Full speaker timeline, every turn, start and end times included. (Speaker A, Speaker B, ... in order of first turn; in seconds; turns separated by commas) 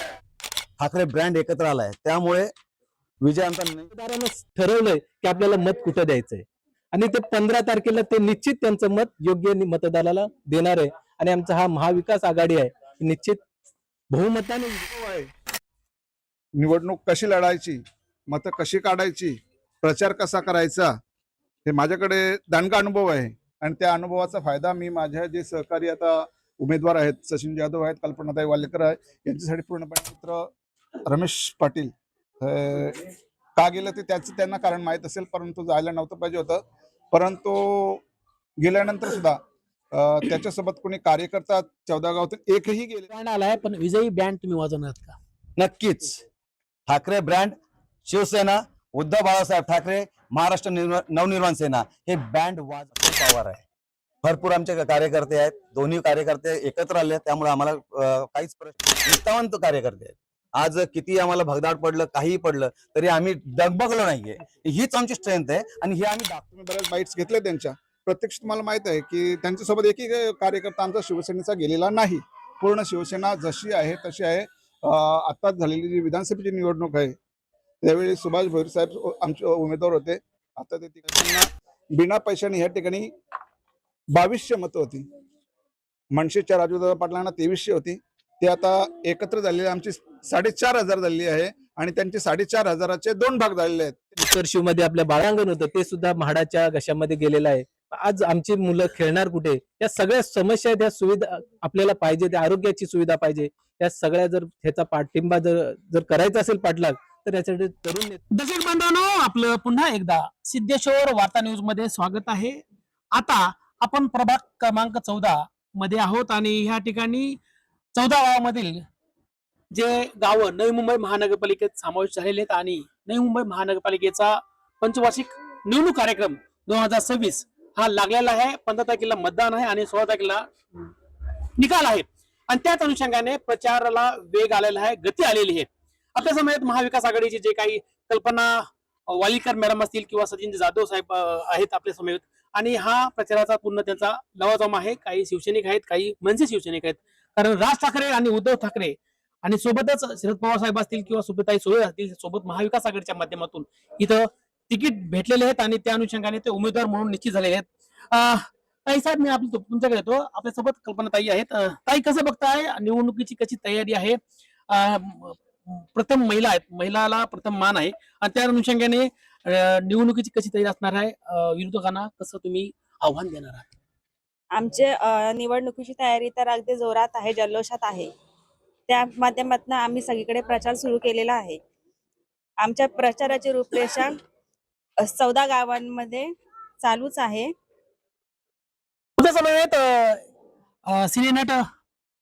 Speaker A: 0.8-2.5, Speaker A: 3.2-3.9, Speaker B: 3.9-13.4, Speaker B: 14.1-15.0, Speaker C: 15.0-15.2, Speaker C: 16.6-17.8, Speaker C: 18.3-20.9, Speaker C: 21.6-30.5, Speaker C: 31.1-31.9, Speaker C: 32.4-33.0, Speaker C: 33.6-36.6, Speaker C: 37.1-38.0, Speaker C: 38.6-39.4, Speaker C: 39.9-43.1, Speaker D: 43.1-45.1, Speaker A: 45.6-46.2, Speaker A: 46.9-47.5, Speaker A: 48.0-53.6, Speaker A: 54.2-66.5, Speaker C: 66.5-77.1, Speaker C: 77.8-83.1, Speaker C: 84.1-85.0, Speaker C: 86.1-94.1, Speaker B: 94.2-108.2, Speaker D: 108.3-112.6, Speaker D: 113.1-117.4, Speaker D: 117.9-118.8, Speaker D: 119.7-130.5, Speaker D: 131.6-173.8, Speaker E: 174.5-178.1, Speaker E: 178.9-181.6, Speaker E: 182.6-184.2, Speaker E: 185.0-187.5, Speaker D: 189.2-190.3, Speaker D: 190.8-191.6